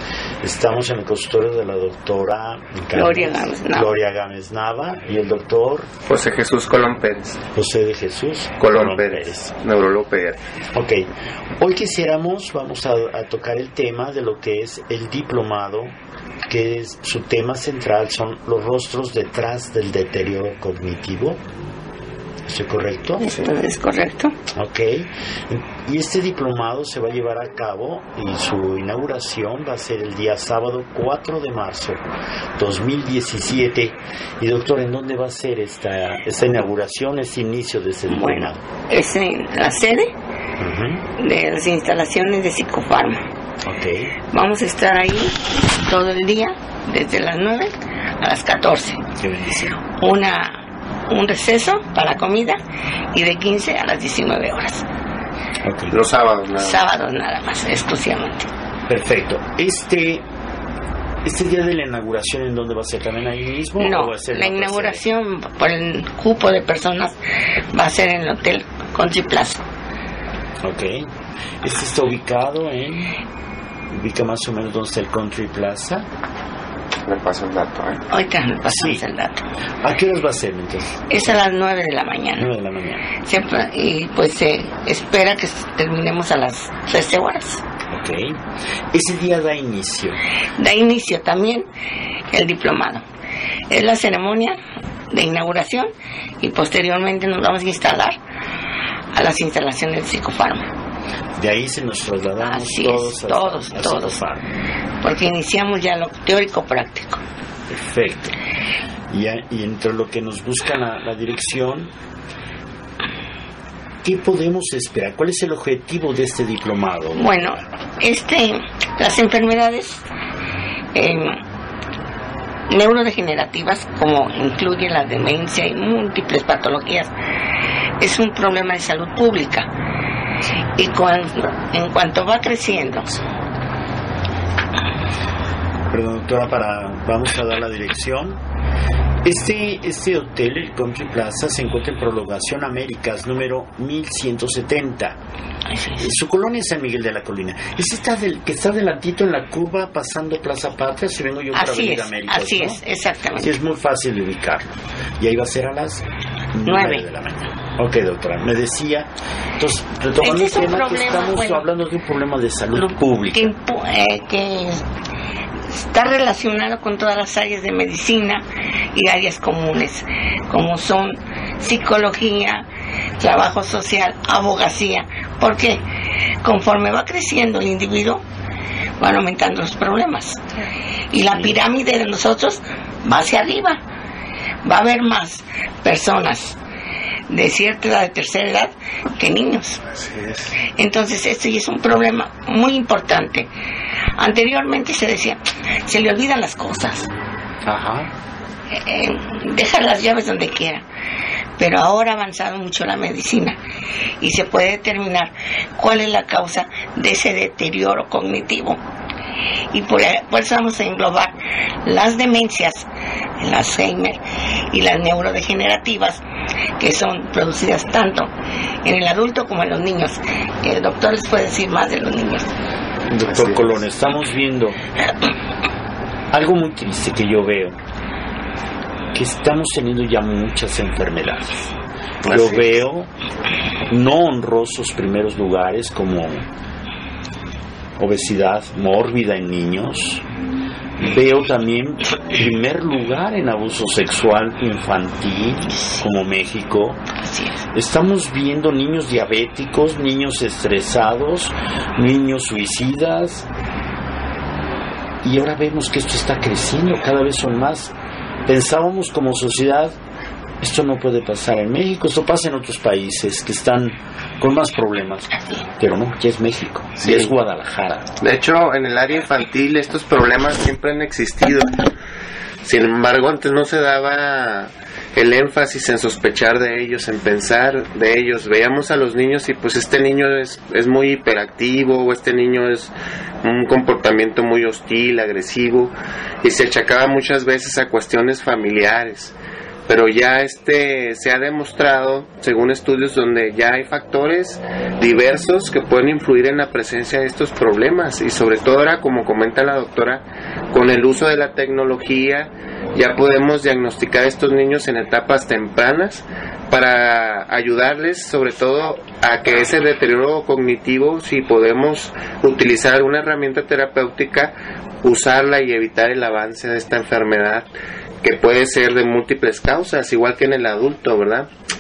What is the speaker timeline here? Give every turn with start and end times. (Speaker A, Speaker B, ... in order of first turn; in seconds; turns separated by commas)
Speaker A: 0.4-5.9, Speaker B: 2.9-3.9, Speaker C: 6.0-7.4, Speaker A: 7.5-9.5, Speaker C: 8.6-10.4, Speaker A: 10.7-11.1, Speaker A: 11.6-15.9, Speaker A: 16.5-21.4, Speaker A: 22.5-23.4, Speaker B: 23.2-24.4, Speaker A: 24.5-32.0, Speaker A: 32.6-38.7, Speaker B: 38.1-40.1, Speaker A: 40.6-41.1, Speaker B: 41.2-43.3, Speaker A: 43.6-44.1, Speaker B: 44.3-49.0, Speaker A: 49.2-49.8, Speaker B: 50.0-52.6, Speaker B: 53.1-54.9, Speaker A: 55.6-56.0, Speaker C: 55.9-56.8, Speaker B: 56.6-58.5, Speaker A: 58.9-60.2, Speaker A: 61.2-65.0, Speaker B: 63.8-67.2, Speaker B: 67.7-69.6, Speaker A: 70.6-71.1, Speaker A: 71.6-73.2, Speaker A: 73.9-76.0, Speaker C: 77.0-78.1, Speaker B: 78.1-79.5, Speaker A: 78.7-79.0, Speaker A: 79.8-81.3, Speaker B: 81.1-82.5, Speaker A: 82.4-83.1, Speaker B: 83.2-87.6, Speaker A: 87.9-88.4, Speaker A: 88.9-90.2, Speaker B: 90.6-91.7, Speaker B: 92.3-93.0, Speaker B: 93.7-94.6, Speaker B: 95.1-98.2, Speaker B: 99.1-100.7, Speaker A: 101.4-104.5, Speaker B: 102.4-104.2, Speaker B: 105.0-107.2, Speaker A: 107.7-108.3, Speaker A: 109.1-111.9, Speaker A: 114.0-117.4, Speaker B: 117.1-120.0, Speaker B: 120.9-121.4, Speaker B: 122.7-127.1, Speaker B: 128.0-129.7, Speaker B: 130.8-133.1, Speaker A: 135.9-138.4, Speaker A: 139.2-145.2, Speaker B: 145.7-146.0, Speaker A: 146.0-152.8, Speaker B: 151.5-153.5, Speaker A: 153.4-163.5, Speaker B: 156.7-157.1, Speaker B: 160.2-161.7, Speaker B: 162.8-164.8, Speaker B: 165.7-172.7, Speaker B: 173.2-175.8, Speaker B: 176.4-178.2, Speaker B: 179.0-180.4, Speaker B: 181.1-183.8, Speaker B: 184.6-186.6, Speaker B: 187.3-189.9, Speaker C: 189.9-190.5, Speaker B: 190.6-193.5, Speaker B: 194.2-197.1, Speaker A: 197.7-198.1, Speaker B: 198.7-200.8, Speaker B: 201.6-203.6, Speaker B: 204.2-208.8, Speaker B: 209.7-211.3, Speaker B: 211.8-212.9, Speaker B: 213.4-214.2, Speaker B: 214.7-216.2, Speaker B: 216.8-218.3, Speaker B: 218.8-222.5, Speaker A: 223.1-224.8, Speaker C: 223.3-223.7, Speaker A: 226.3-227.8, Speaker A: 229.1-231.7, Speaker C: 232.2-232.7, Speaker A: 232.3-233.1, Speaker A: 233.9-236.5, Speaker A: 238.0-240.2, Speaker A: 241.0-247.0, Speaker B: 245.7-246.0, Speaker B: 247.2-247.6, Speaker A: 247.7-253.5, Speaker A: 255.2-257.9, Speaker A: 258.5-260.0, Speaker A: 260.6-268.1, Speaker C: 267.0-267.3, Speaker C: 268.2-271.8, Speaker C: 272.6-289.3, Speaker C: 289.9-317.7, Speaker C: 318.2-321.5